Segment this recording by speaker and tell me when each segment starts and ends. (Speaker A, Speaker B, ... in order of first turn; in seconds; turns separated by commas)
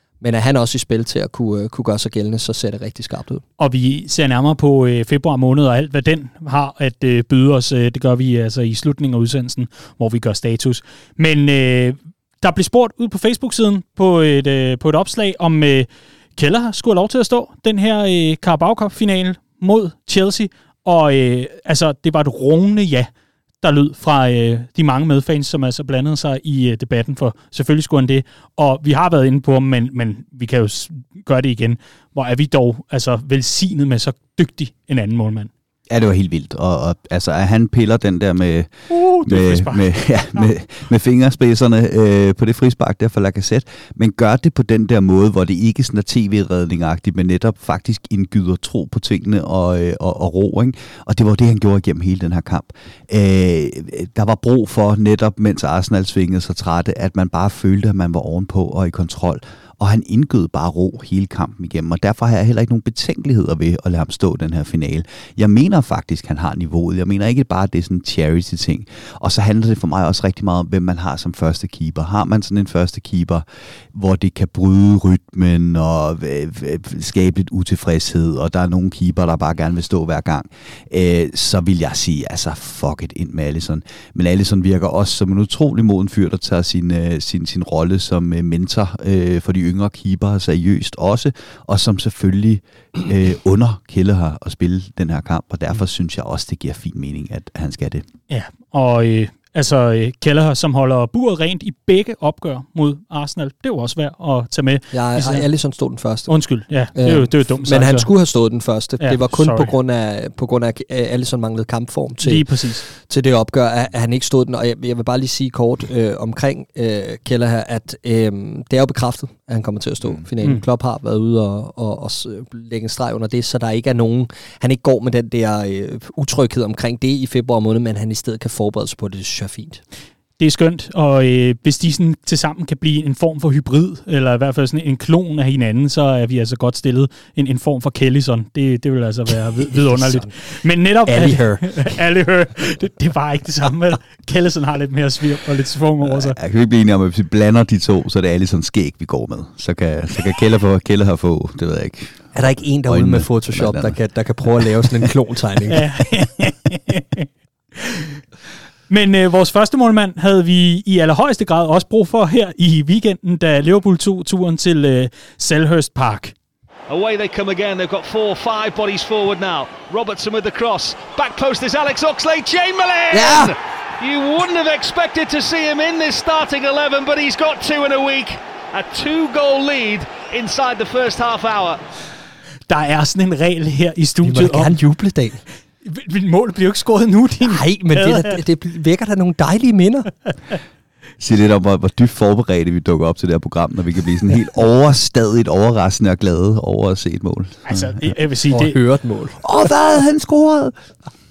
Speaker A: 0.2-3.4, Speaker B: 3.6-23.1, Speaker B: 23.6-35.5, Speaker C: 35.9-98.0, Speaker B: 38.9-40.5, Speaker B: 98.3-105.5, Speaker A: 104.9-106.3, Speaker B: 106.3-108.1, Speaker A: 107.0-129.8, Speaker B: 109.0-109.7, Speaker B: 112.2-112.8, Speaker B: 130.4-146.4, Speaker A: 139.9-140.3, Speaker A: 141.1-142.0, Speaker C: 146.1-152.3, Speaker A: 152.3-155.8, Speaker C: 152.9-154.0, Speaker C: 154.6-155.1, Speaker B: 155.7-158.2, Speaker B: 158.9-166.3, Speaker D: 166.9-181.8, Speaker A: 173.1-173.6, Speaker B: 182.7-184.8, Speaker A: 184.2-185.4, Speaker B: 185.8-188.4, Speaker A: 187.4-190.1, Speaker C: 191.2-198.1, Speaker B: 197.7-198.8, Speaker A: 198.5-199.4, Speaker C: 199.4-200.8